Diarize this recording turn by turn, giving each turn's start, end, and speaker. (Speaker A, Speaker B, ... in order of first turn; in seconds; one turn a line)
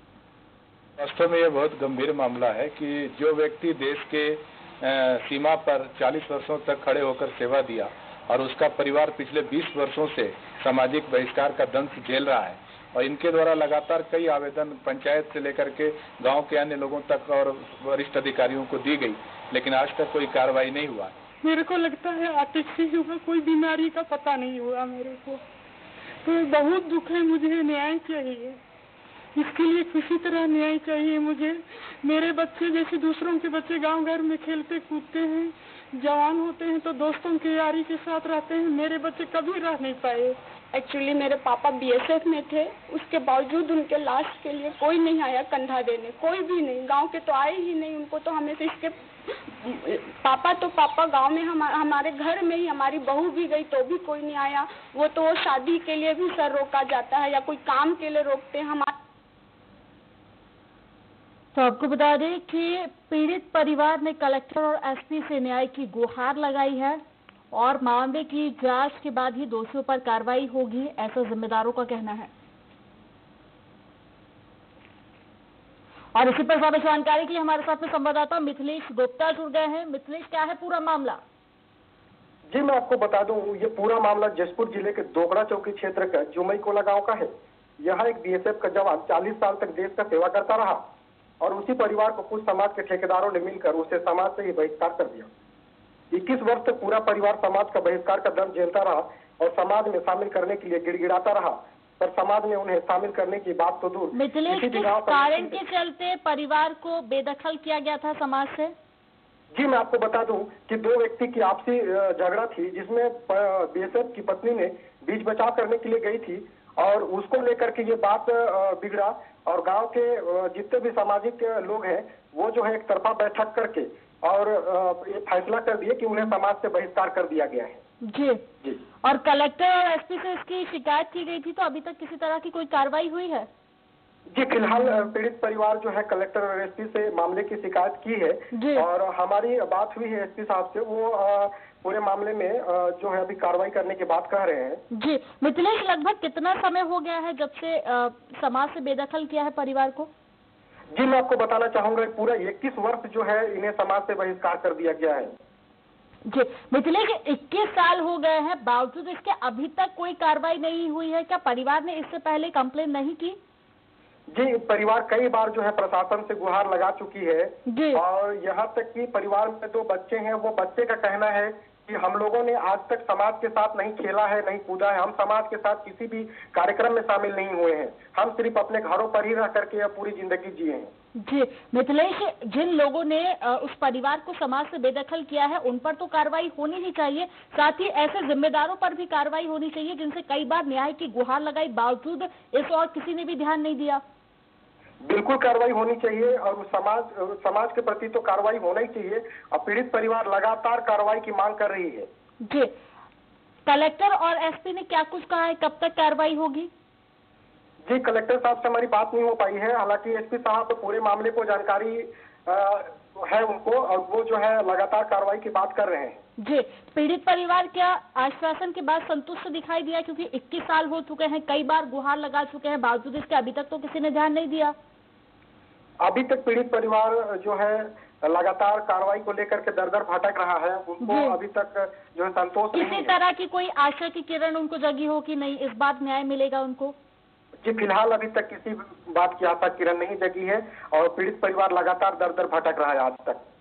Speaker A: 1.0-21.1
Speaker B: 21.4-25.4
Speaker B: 26.2-28.6
Speaker B: 29.4-40.4
Speaker C: 40.7-58.9
Speaker D: 61.5-67.0
Speaker D: 67.5-72.3
Speaker D: 76.2-81.2
Speaker E: 82.5-90.8
Speaker E: 91.4-95.3
Speaker E: 96.1-105.6
Speaker D: 104.1-108.7
Speaker E: 109.5-127.8
Speaker D: 128.1-128.4
Speaker D: 129.0-133.5
Speaker E: 134.3-144.8
Speaker D: 138.5-138.8
Speaker D: 144.9-150.1
Speaker E: 150.9-155.3
Speaker D: 156.3-163.4
Speaker E: 164.3-180.9
Speaker D: 167.7-168.0
Speaker D: 181.2-194.0
Speaker E: 195.0-202.1
Speaker D: 202.4-202.7
Speaker D: 203.7-206.7
Speaker E: 207.8-216.2
Speaker D: 216.4-224.8
Speaker E: 226.0-233.1
Speaker D: 231.0-231.3
Speaker D: 232.7-237.0
Speaker E: 237.6-243.4